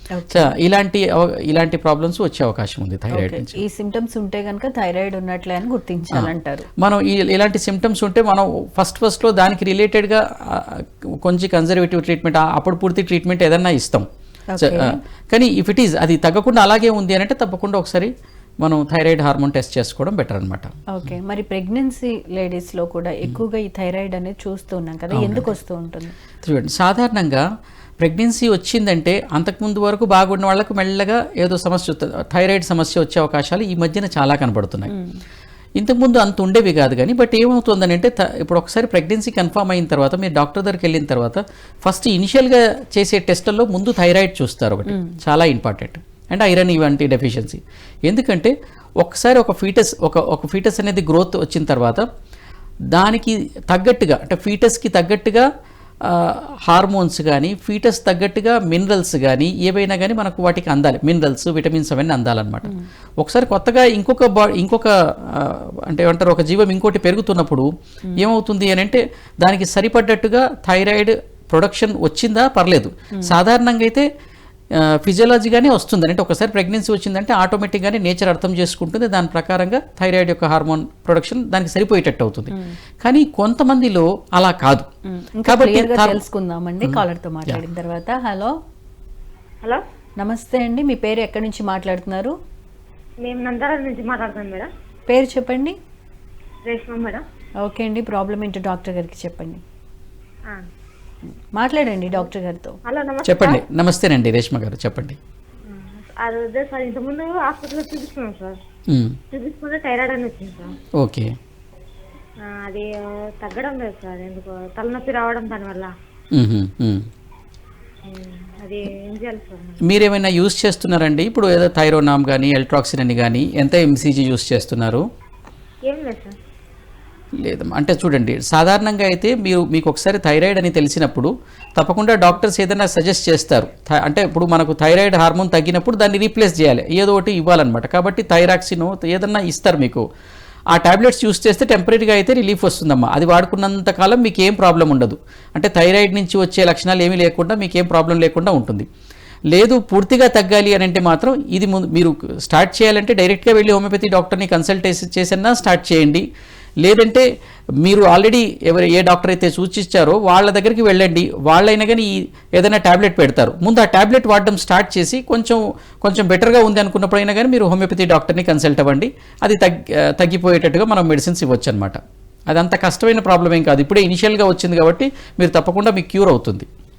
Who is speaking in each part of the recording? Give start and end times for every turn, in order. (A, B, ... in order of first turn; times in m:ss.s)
0:00.1-0:00.5 A
0:00.3-0:03.6 B
0:03.1-0:06.6 A
0:06.1-0:14.0 B
0:14.5-0:15.0 A
0:14.6-0:18.1 B
0:18.6-0:20.7 B
0:20.9-0:26.1 A
0:25.1-0:25.5 B
0:26.4-0:27.4 B
0:28.0-0:34.9 B
0:34.9-0:35.2 A
0:35.8-0:52.0 B
0:52.9-0:55.4 B
0:56.0-1:14.1 B
1:14.8-1:24.9 B
1:25.2-1:28.5 A
1:25.4-1:26.2 B
1:26.8-1:27.6 B
1:30.2-1:32.3 A
1:33.2-1:34.7 C
1:35.1-1:35.7 A
1:36.6-1:37.2 C
1:37.6-1:39.6 A
1:41.6-1:42.8 A
1:42.8-1:43.6 C
1:43.2-1:45.2 B
1:45.7-1:48.6 C
1:48.9-1:49.2 B
1:49.3-1:50.7 C
1:51.0-1:51.3 B
1:52.4-1:55.9 C
1:56.3-1:57.0 B
1:58.1-1:59.8 C
1:59.8-2:05.0 B
2:05.9-2:06.4 C
2:07.4-2:20.0 B
2:20.7-2:28.8 B
2:29.5-2:36.2 B
2:36.8-2:37.2 B
2:37.8-2:52.0 B
2:52.5-2:56.7 B